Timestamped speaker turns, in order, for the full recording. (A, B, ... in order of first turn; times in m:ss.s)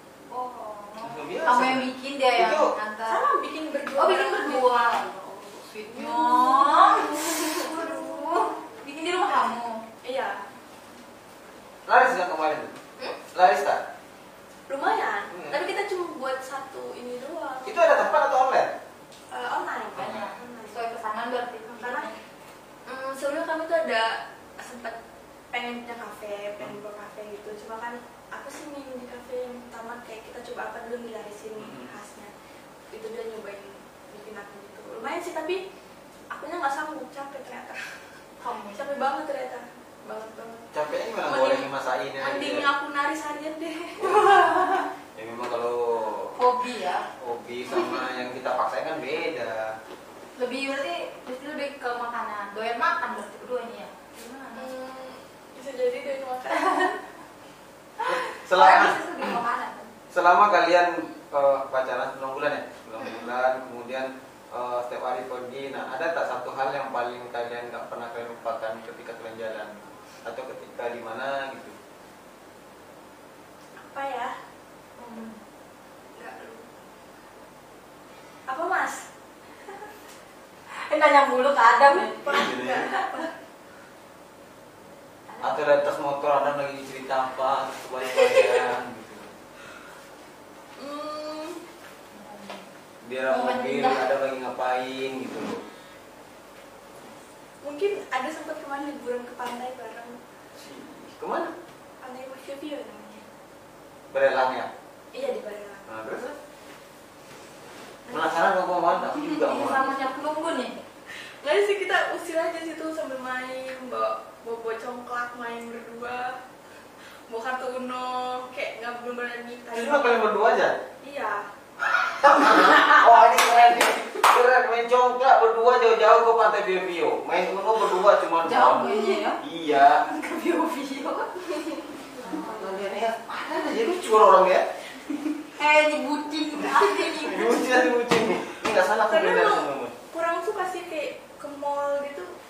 0:00.3-0:03.2 A
0:01.0-0:02.7 B
0:03.1-0:08.4 C
0:04.0-0:09.8 A
0:10.0-0:10.4 C
0:11.8-0:12.8 B
0:13.3-0:13.8 B
0:14.7-0:18.2 C
0:15.3-0:15.6 B
0:17.6-0:18.7 B
0:19.3-0:20.8 C
0:20.0-0:20.3 B
0:20.0-0:22.2 A
0:21.8-0:22.1 C
0:22.8-0:25.0 C
0:25.5-0:32.3 C
0:31.6-0:31.9 B
0:32.9-0:35.6 C
0:36.3-0:37.8 C
0:38.4-0:38.8 A
0:38.7-0:40.7 C
0:40.7-0:42.7 B
0:41.2-0:41.7 C
0:42.2-0:44.2 C
0:44.0-0:44.6 B
0:44.1-0:44.9 A
0:45.1-0:46.4 B
0:46.4-0:47.1 A
0:47.2-0:49.8 B
0:50.4-0:54.7 A
0:54.5-0:56.9 C
0:56.6-0:56.9 A
0:58.0-0:59.9 A
0:58.0-0:59.4 B
1:00.1-1:11.8 B
1:13.8-1:14.3 C
1:15.0-1:15.4 A
1:16.2-1:16.7 C
1:18.5-1:19.1 C
1:20.8-1:23.2 A
1:21.9-1:23.3 C
1:22.3-1:22.9 B
1:25.4-1:29.3 B
1:30.8-1:31.6 C
1:32.1-1:32.7 A
1:33.0-1:35.6 B
1:33.3-1:34.1 A
1:37.6-1:40.2 C
1:40.6-1:41.5 B
1:42.0-1:43.2 C
1:44.1-1:44.7 B
1:45.1-1:45.9 C
1:45.9-1:46.4 B
1:48.1-1:49.9 B
1:49.2-1:50.8 A
1:51.4-1:56.4 C
1:57.3-2:00.3 C
1:59.7-2:00.8 B
2:01.0-2:01.4 C
2:02.0-2:10.0 B
2:08.4-2:09.4 A
2:10.0-2:11.3 A
2:12.2-2:12.8 A
2:12.3-2:14.7 B
2:15.6-2:17.6 A
2:17.1-2:19.9 B
2:19.1-2:22.3 C